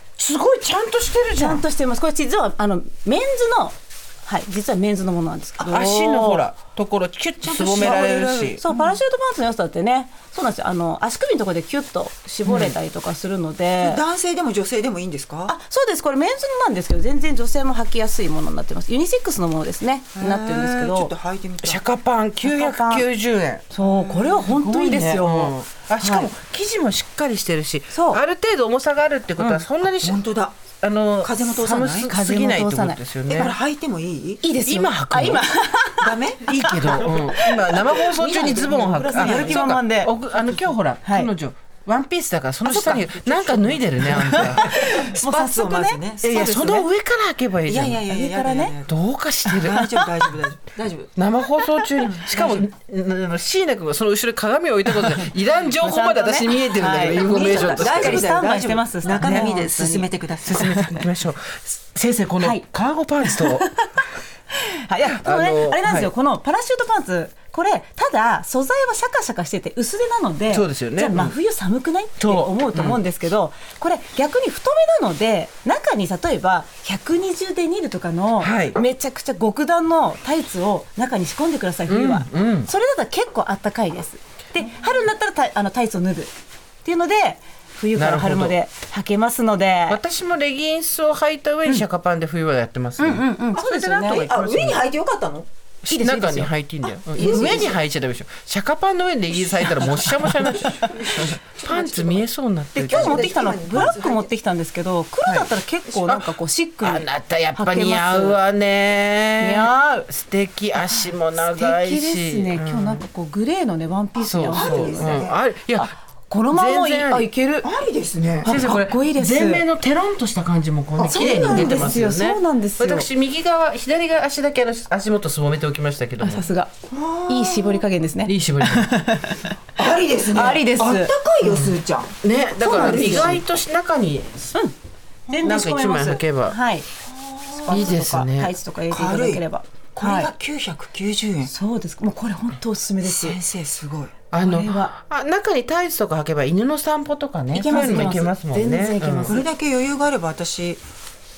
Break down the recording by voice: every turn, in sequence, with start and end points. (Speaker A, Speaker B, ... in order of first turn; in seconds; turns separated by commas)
Speaker A: 0.2-1.6, Speaker B: 1.4-6.5, Speaker A: 5.7-8.6, Speaker C: 7.4-8.9, Speaker B: 8.6-14.0, Speaker A: 12.5-12.7, Speaker C: 13.8-15.5, Speaker B: 15.5-21.1, Speaker C: 20.1-21.8, Speaker A: 21.6-23.6, Speaker B: 22.4-23.1, Speaker B: 23.7-26.3, Speaker C: 23.8-24.4, Speaker A: 24.4-30.2, Speaker B: 27.9-28.2, Speaker B: 29.4-29.6, Speaker C: 30.0-30.6, Speaker A: 30.8-33.5, Speaker C: 31.2-32.1, Speaker B: 32.1-33.0, Speaker C: 33.3-34.5, Speaker B: 34.4-40.1, Speaker A: 34.6-35.4, Speaker C: 36.0-36.5, Speaker A: 36.5-44.6, Speaker C: 38.2-39.8, Speaker B: 41.0-41.3, Speaker C: 42.7-46.9, Speaker B: 44.2-46.0, Speaker A: 46.2-48.0, Speaker C: 47.6-49.0, Speaker B: 48.1-48.8, Speaker A: 48.9-49.9, Speaker C: 49.5-51.1, Speaker A: 51.1-58.3, Speaker C: 52.0-52.6, Speaker B: 55.8-60.9, Speaker C: 57.1-60.9, Speaker A: 59.1-59.7, Speaker A: 60.5-63.7, Speaker B: 63.2-86.3, Speaker A: 65.2-66.1, Speaker A: 70.5-71.3, Speaker A: 72.2-73.0, Speaker A: 78.4-78.8, Speaker A: 81.9-82.7, Speaker B: 86.8-90.0, Speaker A: 87.9-88.5, Speaker A: 89.9-94.8, Speaker B: 93.0-94.3, Speaker C: 93.5-95.5, Speaker A: 95.8-103.9, Speaker B: 95.9-96.5, Speaker C: 97.1-97.8, Speaker B: 97.2-97.7, Speaker C: 99.5-102.2, Speaker B: 102.7-108.4, Speaker C: 102.9-104.3, Speaker A: 105.2-105.5, Speaker A: 106.0-113.0, Speaker B: 109.4-110.1, Speaker B: 111.0-117.7, Speaker A: 114.2-115.9, Speaker C: 114.5-115.4, Speaker A: 116.5-117.3, Speaker C: 117.6-118.5, Speaker B: 118.4-119.6, Speaker A: 118.4-126.5, Speaker C: 121.0-122.0, Speaker B: 121.0-123.1, Speaker B: 126.2-126.7, Speaker C: 126.9-127.8, Speaker B: 127.3-129.5, Speaker A: 128.2-128.9, Speaker C: 129.8-132.1, Speaker B: 130.3-131.1, Speaker A: 131.4-134.5, Speaker B: 132.6-133.4, Speaker C: 132.7-133.4, Speaker B: 135.3-136.9, Speaker C: 135.3-135.6, Speaker A: 135.4-136.5, Speaker C: 137.2-138.1, Speaker B: 137.5-140.3, Speaker A: 137.7-138.5, Speaker C: 138.9-139.4, Speaker C: 139.9-141.5, Speaker B: 141.4-143.4, Speaker C: 143.0-144.2, Speaker A: 144.3-149.4, Speaker B: 144.3-144.9, Speaker B: 147.5-149.5, Speaker C: 149.2-150.8